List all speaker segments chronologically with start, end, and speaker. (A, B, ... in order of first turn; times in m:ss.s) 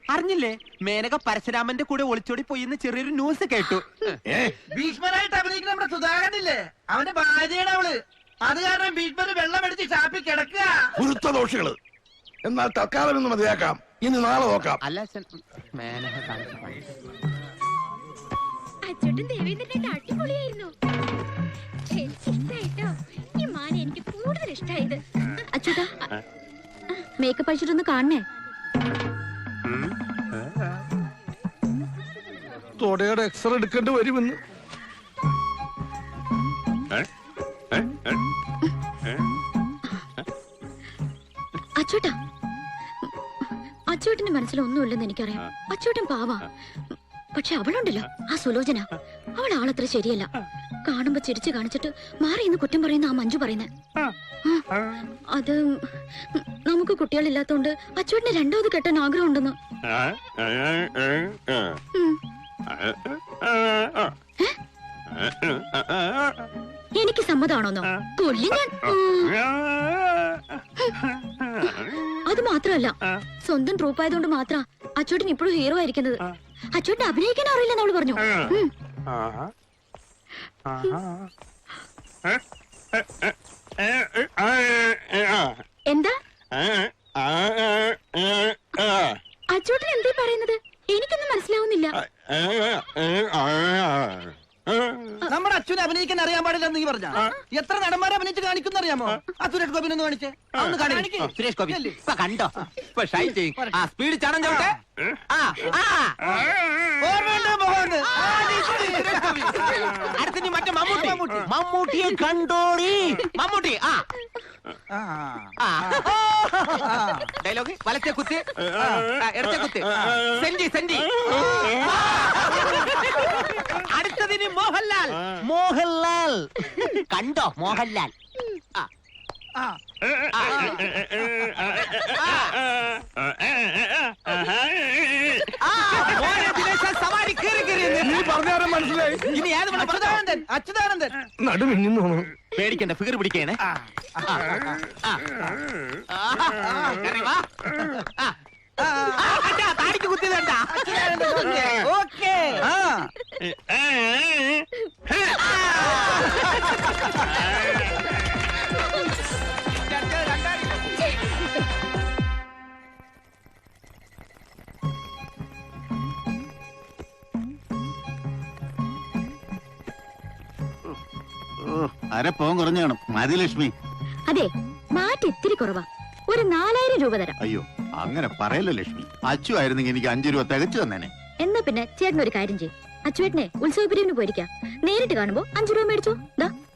0:00.1-0:04.2 A
0:04.3-0:04.6 B
0:04.7-0:10.9 C
0:11.0-0:11.8 B
0:12.4-0:14.8 B
0:14.8-0:16.9 A
0:18.8-0:20.7 D
0:21.9-0:25.9 D
0:27.2-0:28.2 D
0:32.8-0:34.4 E
0:41.8-0:42.2 D
0:43.9-0:46.5 D
0:47.3-0:50.3 D
0:50.9-0:53.7 D
0:55.3-0:59.6 D
1:07.0-1:09.4 D
1:11.6-1:16.2 D
1:16.8-1:18.7 D
1:25.9-1:26.2 D
1:29.5-1:32.0 D
1:35.3-1:42.0 C
1:40.5-1:44.8 A
1:45.3-1:46.2 A
1:47.0-1:49.2 C
1:48.1-1:54.0 A
1:55.6-2:08.1 A
2:10.3-2:10.8 A
2:11.6-2:12.5 A
2:15.6-2:18.3 A
2:15.9-2:16.8 C
2:17.5-2:18.0 C
2:18.0-2:19.3 E
2:19.3-2:20.2 A
2:19.4-2:21.1 C
2:21.4-2:22.3 E
2:22.6-2:23.6 A
2:26.1-2:27.4 A
2:28.8-2:29.5 C
2:29.2-2:33.1 A
2:30.7-2:31.7 C
2:35.2-2:36.4 A
2:39.9-2:40.8 A
2:51.7-2:53.7 F
2:54.3-2:57.4 D
2:57.4-3:01.1 F
3:01.4-3:06.5 D